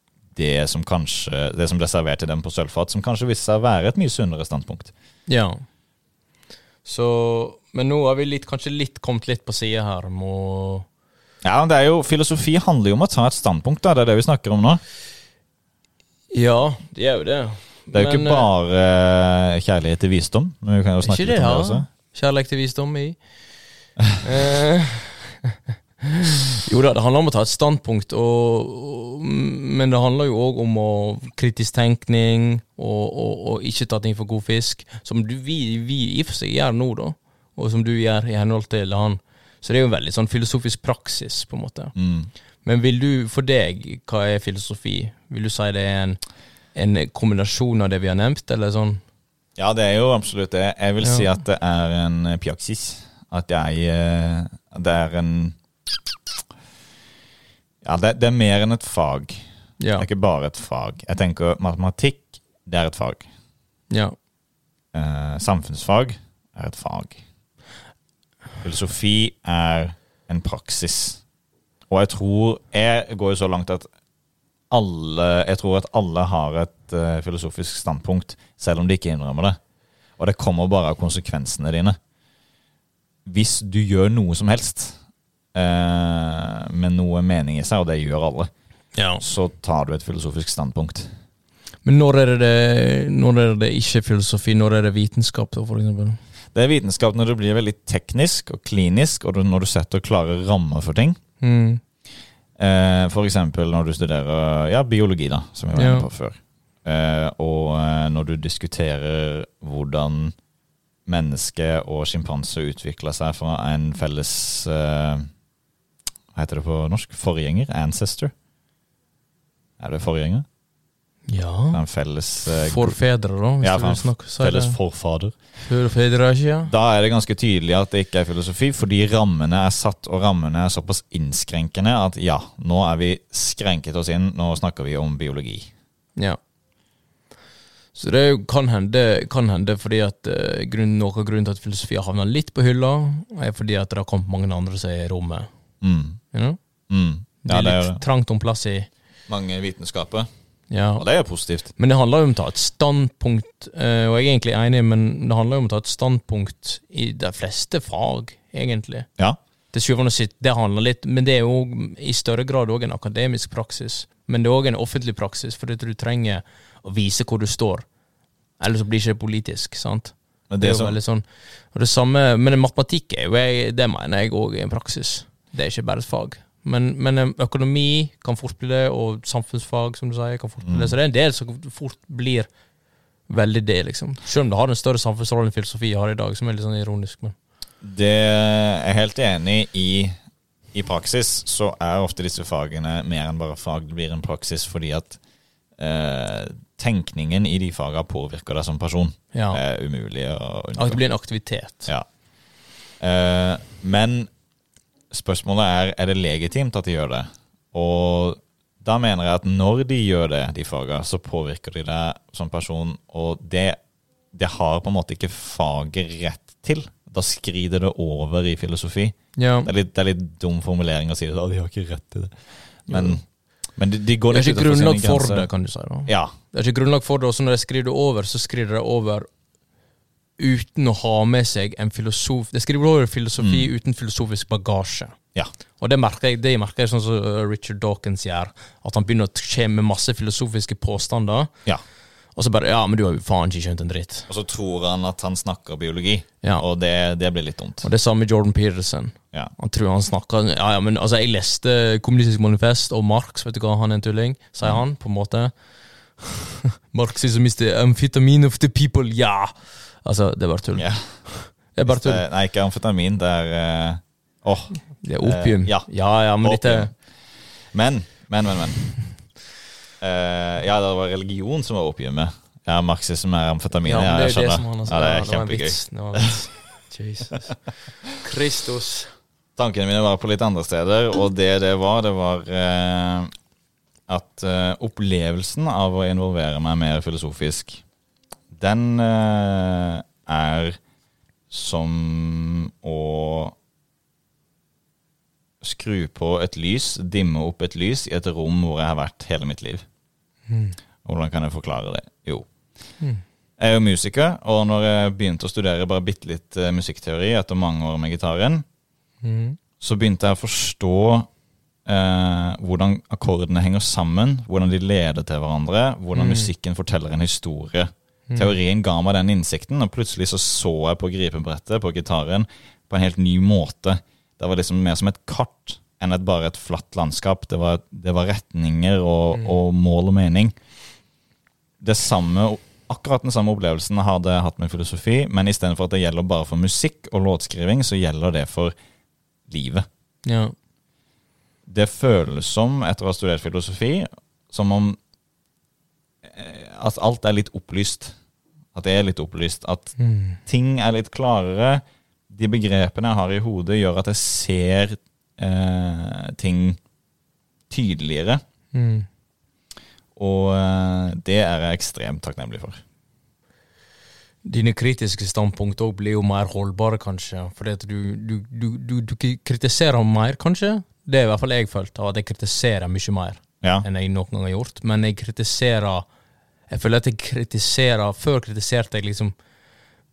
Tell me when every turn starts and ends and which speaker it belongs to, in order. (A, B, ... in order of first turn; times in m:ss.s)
0:00.3-0:04.9 A
0:05.3-0:05.6 B
0:06.8-0:10.9 B
0:11.4-0:14.8 A
0:16.3-0:18.5 B
0:17.9-0:21.9 A
0:21.0-0:23.2 B
0:24.2-0:41.9 B
0:41.9-0:42.3 A
0:42.6-0:46.2 B
0:46.7-0:49.0 B
0:49.6-0:55.6 A
0:51.0-0:51.3 B
0:57.8-0:59.4 A
0:59.8-1:00.0 B
1:00.0-1:03.2 A
1:03.9-1:04.1 B
1:04.9-1:07.2 A
1:08.6-1:11.2 A
1:11.9-1:13.9 A
1:14.7-1:19.6 A
1:20.2-1:22.0 A
1:23.2-1:25.0 A
1:25.5-1:28.5 A
1:29.0-1:29.2 B
1:29.2-1:31.1 A
1:31.8-1:36.2 B
1:36.5-1:41.2 A
1:41.4-1:41.8 B
1:42.6-1:50.3 A
1:45.7-1:46.1 B
1:51.0-1:55.3 A
1:56.3-1:58.3 A
1:59.8-2:00.4 A
2:01.3-2:01.8 B
2:01.7-2:03.0 A
2:02.5-2:04.8 B
2:03.6-2:05.3 A
2:05.6-2:06.7 B
2:06.7-2:15.7 A
2:17.9-2:25.5 B
2:25.8-2:26.2 A
2:26.3-2:26.6 B
2:26.9-2:28.0 A
2:27.4-2:28.9 B
2:29.3-2:30.3 A
2:30.7-2:31.0 B
2:31.0-2:31.7 A
2:31.8-2:39.1 B
2:39.7-2:47.8 B
2:48.6-3:02.5 B
2:50.5-2:51.0 A
3:00.6-3:00.9 A
3:03.3-3:07.3 B
3:07.8-3:10.1 A
3:10.7-3:15.2 A
3:15.8-3:21.0 A
3:19.3-3:19.6 B
3:20.8-3:21.9 B
3:23.0-3:24.3 A
3:25.1-3:33.8 A
3:34.3-3:42.3 A
3:39.4-3:39.7 B
3:42.8-3:43.2 A
3:42.9-3:43.2 B
3:43.8-3:45.5 A
3:44.3-3:49.3 B
3:46.1-3:46.3 A
3:50.4-3:55.2 B
3:53.4-3:53.7 A
3:55.8-4:01.5 B
4:02.4-4:04.3 B
4:04.3-4:07.8 A
4:07.8-4:15.5 B
4:16.2-4:19.5 B
4:20.0-4:22.2 B
4:20.7-4:21.0 A
4:21.8-4:25.9 A
4:25.0-4:26.9 B
4:26.4-4:26.9 A
4:27.7-4:28.8 A
4:30.0-4:36.3 A
4:33.8-4:37.6 B
4:38.1-4:39.1 B
4:39.6-4:43.3 A
4:44.1-4:47.8 A
4:48.5-4:50.8 A
4:51.5-4:53.5 A
4:55.6-4:59.8 A
5:00.5-5:00.8 B
5:01.0-5:02.5 A
5:03.6-5:08.6 A
5:09.2-5:09.6 B
5:09.8-5:11.3 A
5:11.8-5:30.5 A
5:16.1-5:16.5 B
5:31.8-5:38.7 A
5:39.5-5:39.8 A
5:40.2-5:40.5 B
5:41.7-5:45.0 A
5:46.2-5:48.1 A
5:48.7-5:49.9 A
5:50.0-5:50.4 B
5:50.4-5:56.8 A
5:57.7-5:58.4 A
5:58.7-5:59.1 B
6:00.2-6:02.8 A
6:04.4-6:16.0 B
6:16.7-6:19.3 B